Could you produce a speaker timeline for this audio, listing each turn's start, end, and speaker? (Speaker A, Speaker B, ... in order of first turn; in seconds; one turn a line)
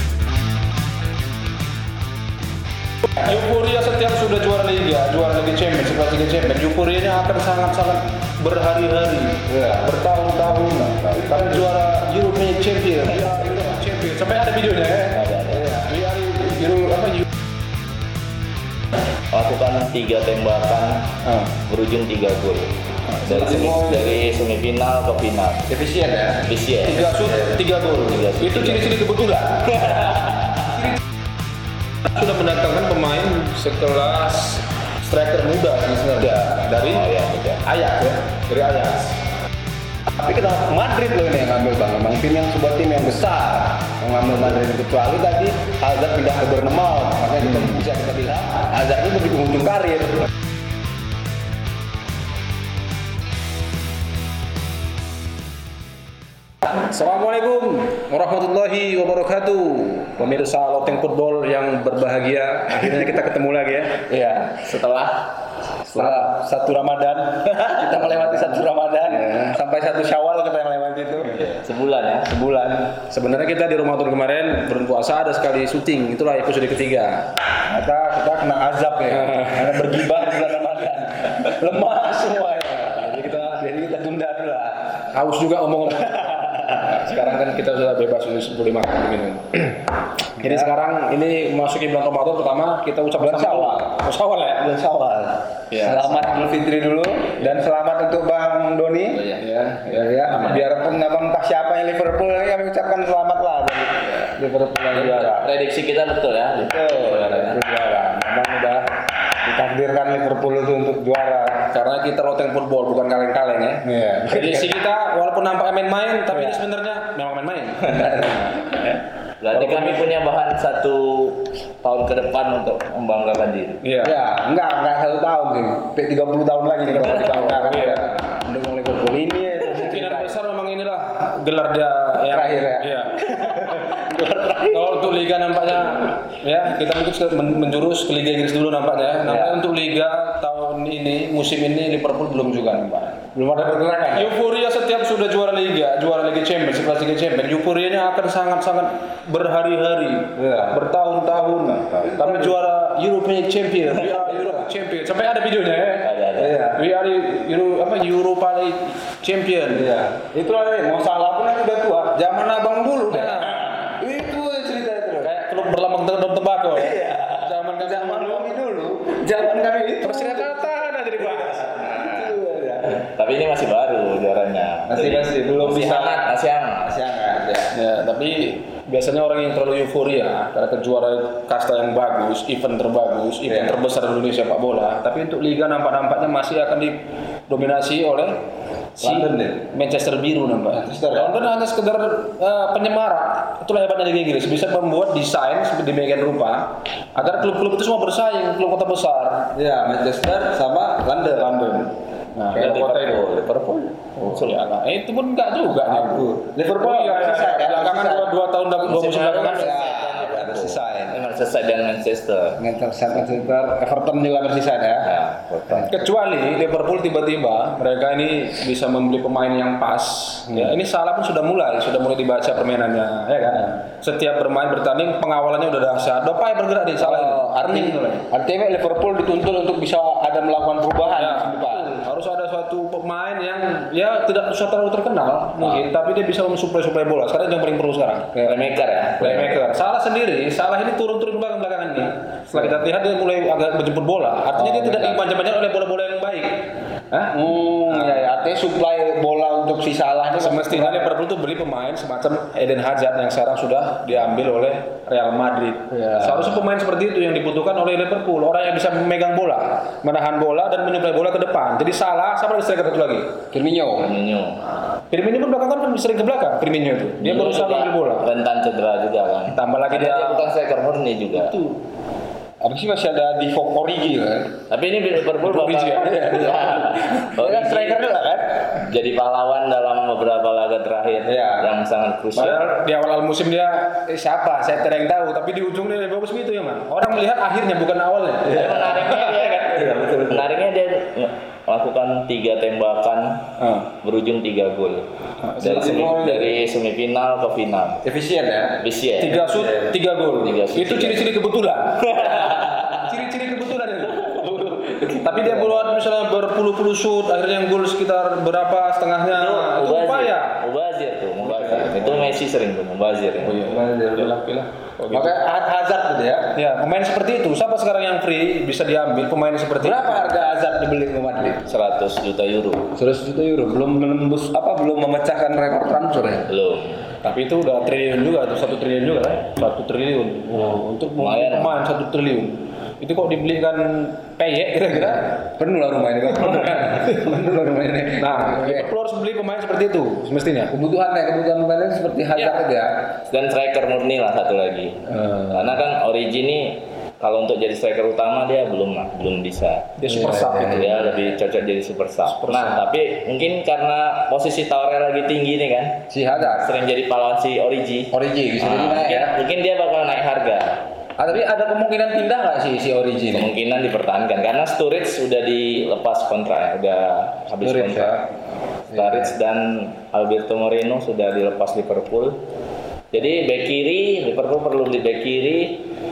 Speaker A: 3.2-17.2
Speaker B: 9.5-9.9
Speaker C: 15.1-15.6
Speaker C: 19.3-21.1
Speaker C: 21.7-25.7
Speaker B: 23.2-24.1
Speaker B: 25.7-26.4
Speaker C: 26.5-27.1
Speaker A: 26.9-30.2
Speaker B: 27.1-27.6
Speaker C: 28.1-28.9
Speaker C: 29.8-30.8
Speaker A: 32.1-37.1
Speaker C: 36.7-37.6
Speaker A: 37.6-39.2
Speaker B: 40.2-50.3
Speaker A: 47.4-47.8
Speaker A: 56.8-64.0
Speaker B: 64.1-64.7
Speaker C: 64.6-65.3
Speaker C: 65.8-66.3
Speaker B: 65.9-71.4
Speaker C: 71.3-72.3
Speaker B: 72.3-73.0
Speaker A: 73.0-77.3
Speaker B: 77.7-85.0
Speaker A: 79.1-79.9
Speaker A: 83.0-83.6
Speaker A: 85.1-94.7
Speaker B: 85.9-87.1
Speaker B: 90.4-90.7
Speaker B: 93.2-94.0
Speaker B: 94.6-99.2
Speaker A: 95.7-96.2
Speaker C: 99.1-99.4
Speaker A: 99.4-100.7
Speaker B: 99.9-105.5
Speaker C: 104.9-107.6
Speaker B: 106.6-108.9
Speaker B: 109.4-111.7
Speaker A: 111.7-118.8
Speaker B: 113.8-114.7
Speaker B: 116.3-116.6
Speaker B: 117.8-119.0
Speaker C: 119.4-123.8
Speaker A: 119.5-120.1
Speaker A: 123.8-124.2
Speaker B: 124.0-130.3
Speaker A: 126.9-128.2
Speaker A: 129.7-133.9
Speaker B: 132.3-135.0
Speaker A: 134.7-156.1
Speaker B: 139.2-139.6
Speaker B: 143.3-144.3
Speaker B: 150.3-150.8
Speaker B: 152.0-152.5
Speaker C: 156.0-156.6
Speaker B: 156.4-156.8
Speaker A: 156.8-159.9
Speaker B: 159.7-165.3
Speaker A: 163.1-163.8
Speaker A: 165.2-168.6
Speaker B: 166.7-170.7
Speaker A: 170.0-171.8
Speaker B: 171.2-173.1
Speaker C: 171.7-172.3
Speaker C: 173.0-177.0
Speaker B: 174.9-176.2
Speaker B: 176.8-177.7
Speaker A: 177.7-187.0
Speaker B: 183.5-183.8
Speaker A: 187.5-188.3
Speaker A: 189.0-199.5
Speaker B: 189.0-189.7
Speaker B: 190.7-191.4
Speaker B: 199.6-201.6
Speaker A: 201.4-209.8
Speaker C: 202.5-203.4
Speaker B: 205.8-208.3
Speaker C: 208.8-212.6
Speaker B: 209.4-211.2
Speaker B: 212.6-215.1
Speaker C: 215.0-215.9
Speaker A: 215.9-228.2
Speaker B: 220.5-220.7
Speaker B: 227.0-232.0
Speaker A: 231.2-238.5
Speaker C: 238.4-239.6
Speaker A: 239.2-246.6
Speaker B: 244.6-245.2
Speaker B: 247.1-251.1
Speaker A: 247.9-248.5
Speaker A: 250.4-263.3
Speaker B: 255.9-256.6
Speaker B: 263.5-264.1
Speaker C: 264.0-264.6
Speaker A: 264.9-268.3
Speaker C: 267.2-271.5
Speaker A: 269.5-270.5
Speaker A: 271.3-271.7
Speaker B: 272.6-274.6
Speaker C: 274.7-278.1
Speaker A: 275.4-276.8
Speaker B: 276.0-278.7
Speaker C: 278.8-282.6
Speaker B: 281.2-281.7
Speaker A: 282.4-289.6
Speaker C: 288.5-293.5
Speaker B: 289.7-290.4
Speaker A: 293.6-293.9
Speaker C: 294.0-295.1
Speaker A: 295.4-296.1
Speaker B: 295.6-296.6
Speaker C: 295.6-298.0
Speaker B: 298.0-298.8
Speaker C: 298.8-299.4
Speaker A: 299.2-310.6
Speaker B: 299.4-299.9
Speaker C: 300.4-301.3
Speaker C: 302.2-302.5
Speaker B: 302.3-303.1
Speaker B: 304.2-305.9
Speaker C: 309.3-313.6
Speaker A: 311.4-312.4
Speaker A: 313.4-315.4
Speaker B: 313.6-314.4
Speaker B: 315.1-316.5
Speaker A: 316.6-320.3
Speaker B: 319.8-321.6
Speaker C: 321.7-322.9
Speaker B: 322.9-326.4
Speaker C: 326.5-327.0
Speaker A: 327.2-335.4
Speaker C: 331.2-331.8
Speaker B: 335.4-338.9
Speaker A: 336.4-337.1
Speaker A: 338.2-340.7
Speaker B: 340.7-342.9
Speaker C: 343.3-349.9
Speaker A: 345.1-345.5
Speaker A: 350.0-351.2
Speaker B: 350.1-350.9
Speaker C: 350.5-360.7
Speaker A: 352.3-352.8
Speaker B: 356.1-356.7
Speaker B: 358.1-359.4
Speaker B: 361.2-363.5
Speaker C: 363.3-368.2
Speaker B: 367.6-368.2
Speaker C: 368.9-372.3
Speaker B: 368.9-369.3
Speaker C: 373.1-375.8